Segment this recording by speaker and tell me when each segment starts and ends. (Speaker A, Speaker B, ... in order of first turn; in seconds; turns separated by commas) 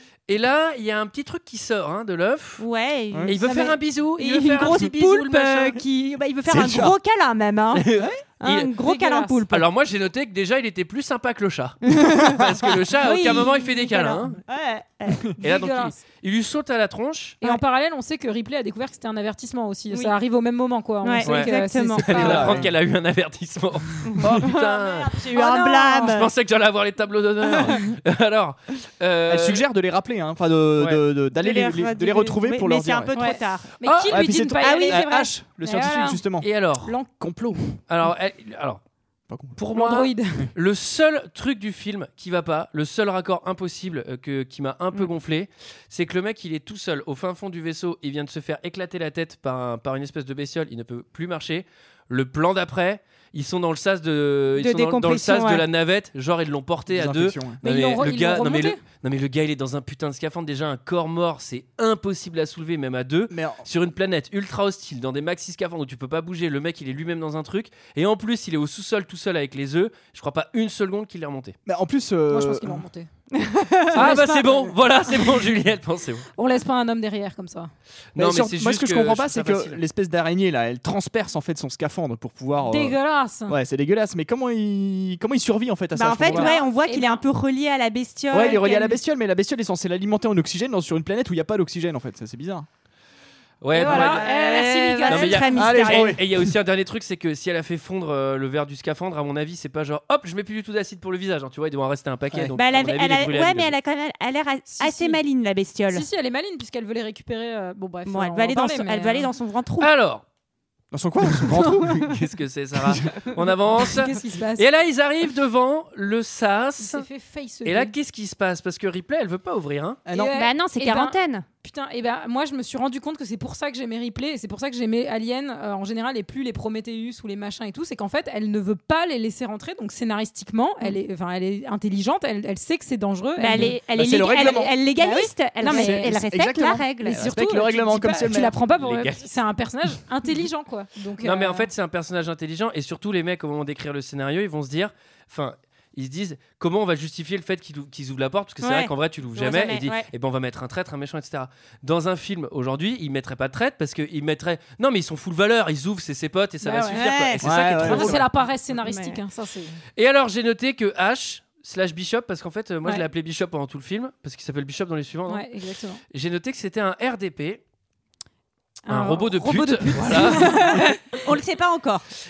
Speaker A: 0.3-2.6, Speaker B: 2.6-7.9, Speaker C: 3.1-3.4, Speaker A: 3.3-5.8, Speaker C: 6.5-7.0, Speaker A: 7.8-8.7, Speaker B: 8.4-9.7, Speaker D: 8.8-9.4, Speaker A: 9.5-14.4, Speaker B: 11.8-12.4, Speaker B: 13.0-15.3, Speaker D: 15.4-16.0, Speaker A: 15.4-17.4, Speaker D: 17.4-22.6, Speaker B: 21.0-22.7, Speaker A: 21.2-25.3, Speaker C: 22.2-22.7, Speaker B: 24.0-26.3, Speaker D: 25.3-26.2, Speaker A: 26.0-29.6, Speaker C: 29.3-33.1, Speaker B: 31.3-33.7, Speaker D: 33.1-35.1, Speaker C: 34.0-36.5, Speaker B: 34.6-35.3, Speaker D: 35.6-36.2, Speaker A: 36.4-36.9, Speaker D: 36.8-37.1, Speaker C: 37.2-37.6, Speaker A: 37.9-38.8, Speaker C: 39.3-39.6, Speaker A: 39.6-71.6, Speaker D: 39.7-40.5, Speaker B: 54.6-55.6, Speaker C: 56.9-57.6, Speaker D: 57.6-58.8, Speaker C: 63.3-63.6, Speaker C: 71.7-72.9, Speaker D: 72.3-73.1, Speaker B: 73.3-74.4, Speaker A: 73.9-76.3, Speaker D: 73.9-74.5, Speaker D: 76.4-77.7, Speaker A: 78.2-79.8, Speaker C: 78.2-86.5, Speaker D: 82.6-83.6, Speaker B: 85.9-89.0, Speaker D: 86.2-87.2, Speaker C: 88.3-92.7, Speaker D: 88.3-88.6, Speaker A: 93.6-94.3, Speaker D: 93.8-95.6, Speaker B: 93.8-96.2, Speaker A: 95.0-103.7, Speaker C: 95.5-96.5, Speaker B: 102.6-106.0, Speaker D: 104.7-105.2, Speaker D: 105.9-109.3, Speaker B: 108.1-109.9, Speaker A: 109.8-110.2, Speaker C: 110.9-112.1, Speaker A: 111.5-117.1, Speaker C: 112.8-113.3, Speaker D: 113.8-114.7, Speaker D: 116.8-117.9, Speaker A: 117.7-120.0, Speaker C: 120.1-120.4, Speaker D: 120.1-141.7, Speaker B: 120.3-121.5, Speaker B: 133.4-137.2, Speaker C: 133.6-134.7, Speaker C: 135.6-138.5, Speaker A: 138.8-139.3, Speaker A: 141.2-158.2, Speaker B: 148.6-150.1, Speaker D: 156.6-157.0, Speaker B: 156.9-157.5, Speaker C: 157.4-158.3, Speaker D: 157.9-159.8, Speaker B: 158.8-159.2, Speaker A: 160.0-165.4, Speaker D: 165.3-166.0, Speaker A: 166.1-167.6, Speaker D: 168.9-171.2, Speaker A: 168.9-170.9, Speaker B: 170.4-172.1